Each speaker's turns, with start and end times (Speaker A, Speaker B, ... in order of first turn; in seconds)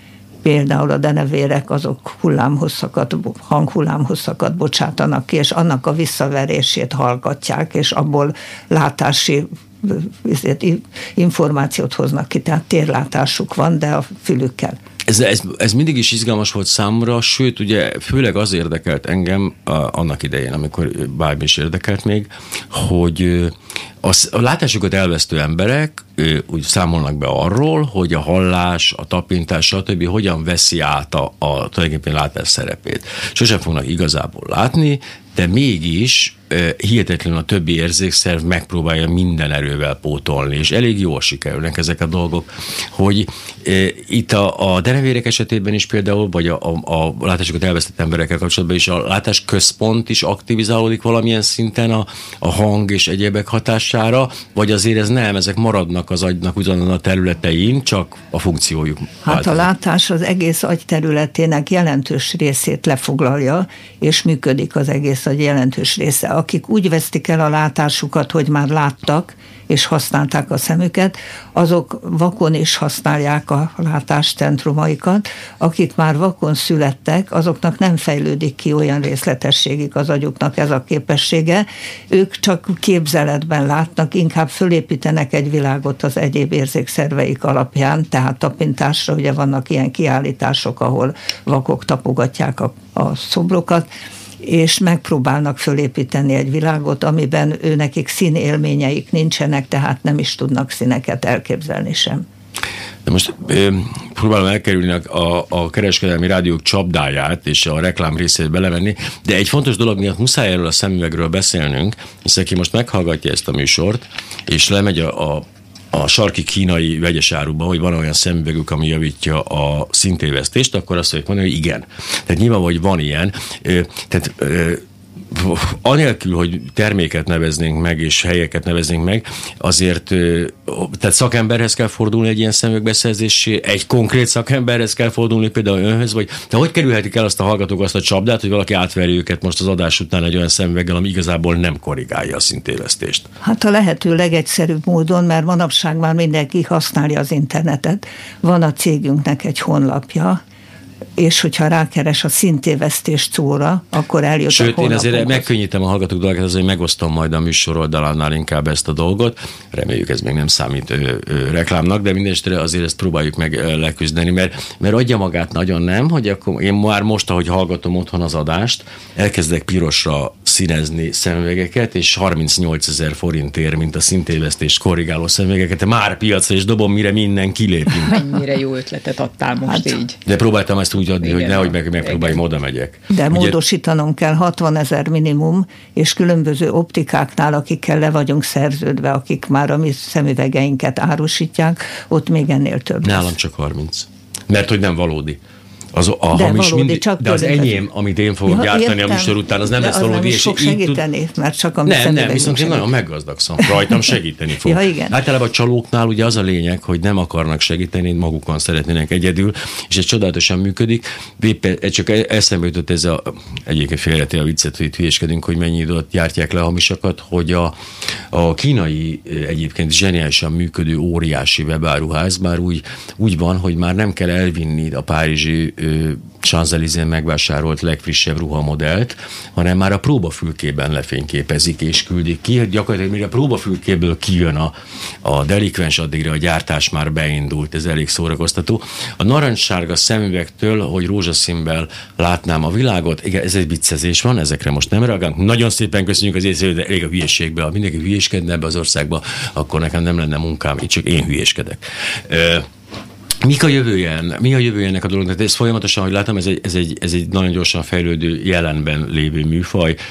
Speaker A: 0.4-14.8, 59.2-93.9, 94.4-102.2, 143.4-150.4, 151.2-155.5, 179.7-180.0, 183.1-193.3, 196.3-197.8, 198.4-202.9, 203.6-204.0, 204.6-205.1
Speaker B: 15.1-59.6, 103.0-143.3, 154.5-178.2, 180.2-183.6, 193.0-195.4, 195.9-201.0, 201.8-217.7, 218.3-234.7, 235.2-252.7, 253.4-260.0
Speaker C: 178.1-180.2, 181.2-182.4